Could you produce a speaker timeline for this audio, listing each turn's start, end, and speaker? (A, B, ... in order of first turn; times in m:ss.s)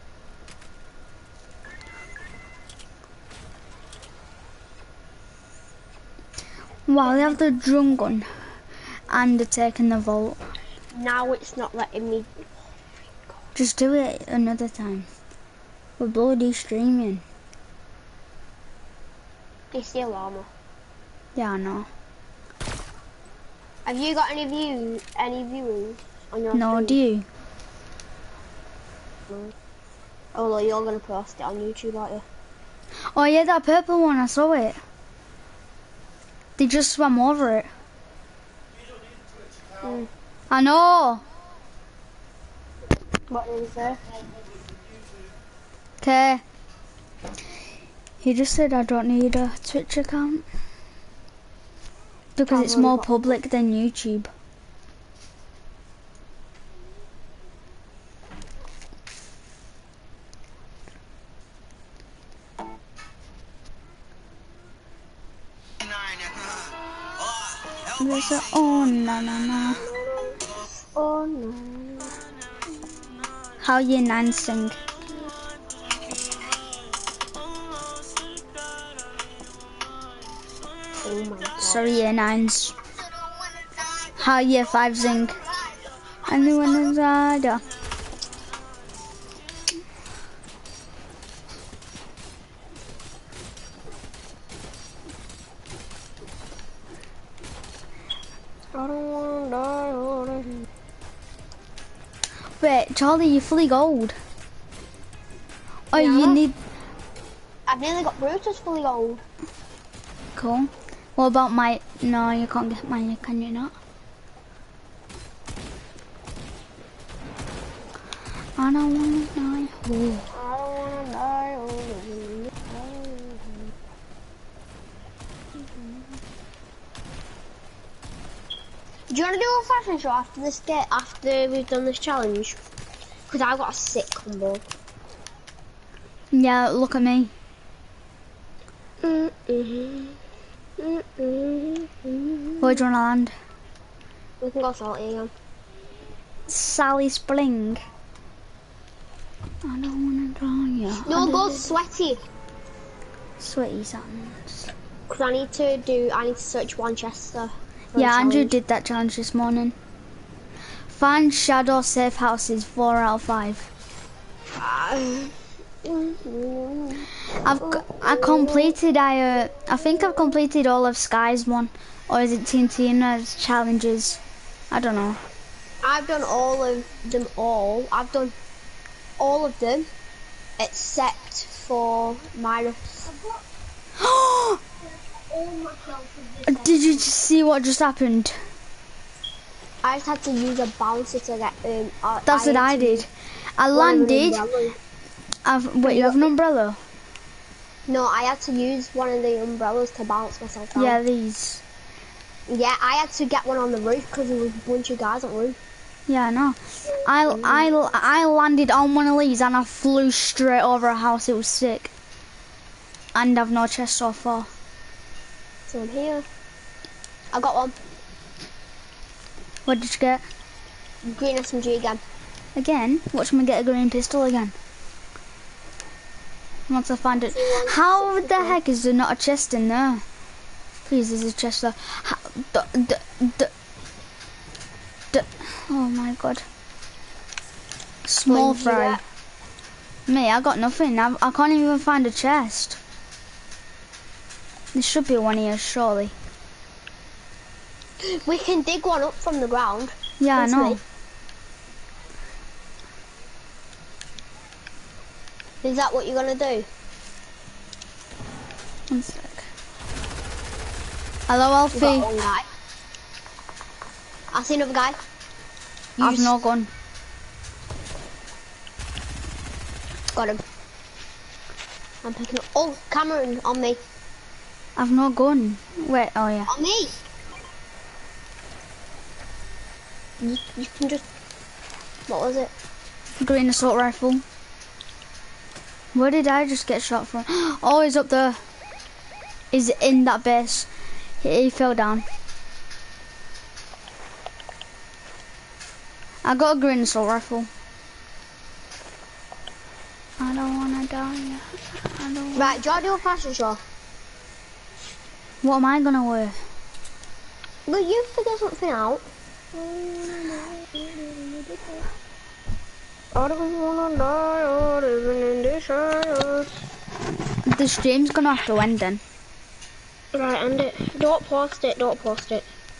0:06.9-0:08.3 A
0:07.0-0:07.4 B
0:09.1-0:10.4 A
0:10.9-0:13.4 B
0:13.5-0:15.1 A
0:16.0-0:17.2 A
0:19.7-0:20.5 B
0:21.3-0:21.9 A
0:23.8-0:27.0 B
0:26.5-0:27.2 A
0:30.3-0:32.2 B
0:33.1-0:34.8 A
0:36.6-0:37.7 A
0:39.8-0:40.1 B
0:40.5-0:41.2 A
0:43.3-0:44.1 B
0:46.0-0:46.4 A
0:48.2-0:50.4 A
0:52.4-0:54.3 A
0:52.5-0:53.3 B
1:07.9-1:09.8 A
1:09.8-1:10.4 B
1:10.9-1:12.1 B
1:13.6-1:14.8 A
1:21.0-1:22.0 B
1:21.6-1:22.7 A
1:24.1-1:25.4 A
1:26.2-1:27.6 A
1:38.7-1:40.6 B
1:42.6-1:44.2 A
1:45.9-1:46.6 A
1:45.9-1:46.4 B
1:47.7-1:49.2 B
1:50.3-1:53.7 A
1:58.6-2:00.3 A
2:00.3-2:03.7 B
2:09.1-2:12.6 B
2:13.3-2:14.6 B
2:16.3-2:17.3 A
2:19.0-2:20.2 B
2:20.8-2:22.8 B
2:22.6-2:23.3 A
2:24.4-2:25.3 B
2:26.5-2:27.8 A
2:29.6-2:31.6 A
2:31.0-2:32.2 B
2:33.4-2:34.7 A
2:35.1-2:38.6 B
2:37.9-2:39.7 A
2:40.9-2:43.7 A
2:44.5-2:48.8 B
2:47.4-2:54.2 A
2:54.7-2:55.2 A
2:55.8-2:58.3 B
2:59.2-2:59.9 B
3:00.6-3:03.1 B
3:04.0-3:04.6 A
3:05.0-3:07.1 B
3:06.4-3:08.4 A
3:09.8-3:13.0 B
3:12.2-3:14.4 A
3:13.7-3:14.8 B
3:15.4-3:16.8 A
3:15.8-3:16.3 B
3:17.9-3:21.0 B
3:20.7-3:21.6 A
3:22.5-3:25.6 B
3:26.1-3:31.9 A
3:27.0-3:27.7 B
3:33.1-3:34.5 A
3:35.7-3:36.2 B
3:37.3-3:37.8 B
3:39.6-3:40.2 A
3:41.0-3:42.0 B
3:42.6-3:44.5 A
3:46.7-3:50.0 A
3:47.2-3:48.6 B
3:50.8-3:53.5 A
3:55.1-3:56.4 A
3:58.0-3:59.0 A
3:58.3-3:59.0 B
4:00.1-4:02.8 A
4:04.7-4:06.1 A
4:08.0-4:10.8 B
4:10.2-4:10.8 A
4:15.6-4:16.7 B
4:18.9-4:19.5 A
4:21.3-4:22.1 A
4:21.7-4:22.5 B
4:24.3-4:25.0 B
4:26.0-4:26.7 A
4:30.1-4:30.4 B
4:32.0-4:33.8 B
4:34.8-4:36.5 A
4:36.5-4:37.0 B
4:40.2-4:41.0 B
4:42.1-4:42.5 B
4:43.2-4:44.2 A
4:45.9-4:48.4 A
4:49.5-4:50.7 A
4:51.2-4:52.0 A
4:56.2-4:57.5 A
5:00.2-5:02.6 A
5:02.3-5:03.6 B
5:05.4-5:06.4 A
5:07.6-5:11.8 B
5:13.1-5:16.6 B
5:17.4-5:19.0 A
5:20.1-5:22.5 B